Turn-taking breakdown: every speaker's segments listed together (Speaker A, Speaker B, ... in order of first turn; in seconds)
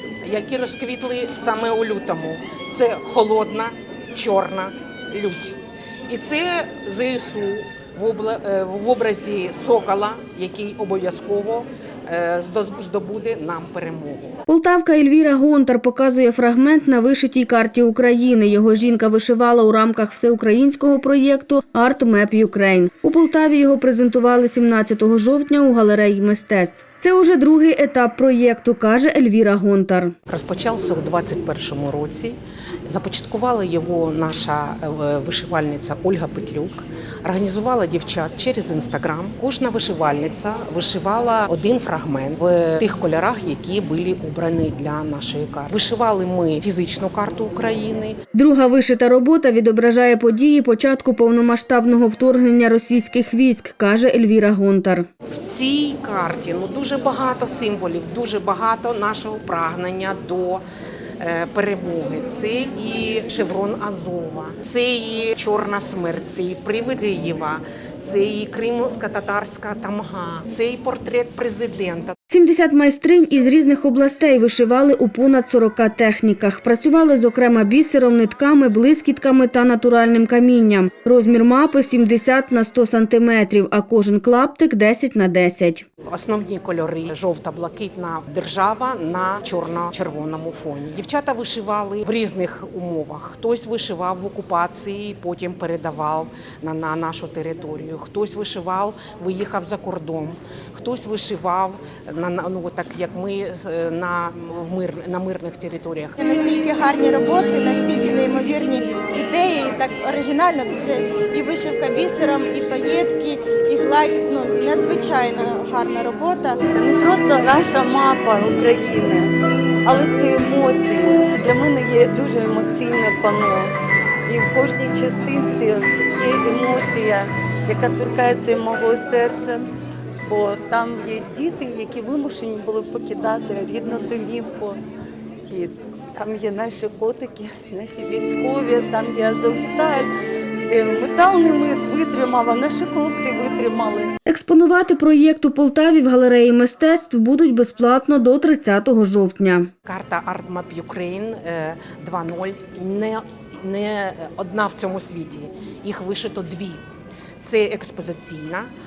Speaker A: 0.2-5.6, 6.1-14.4, 30.3-48.2, 55.5-60.6, 61.2-72.2, 86.1-106.2, 149.8-156.8, 157.4-158.7
Speaker B: 14.5-30.1, 48.3-55.1, 72.3-85.8, 144.2-149.7
Speaker C: 106.2-116.6
Speaker D: 116.7-119.3, 119.8-123.7, 124.3-129.7, 130.2-134.8, 135.5-140.1, 140.7-144.1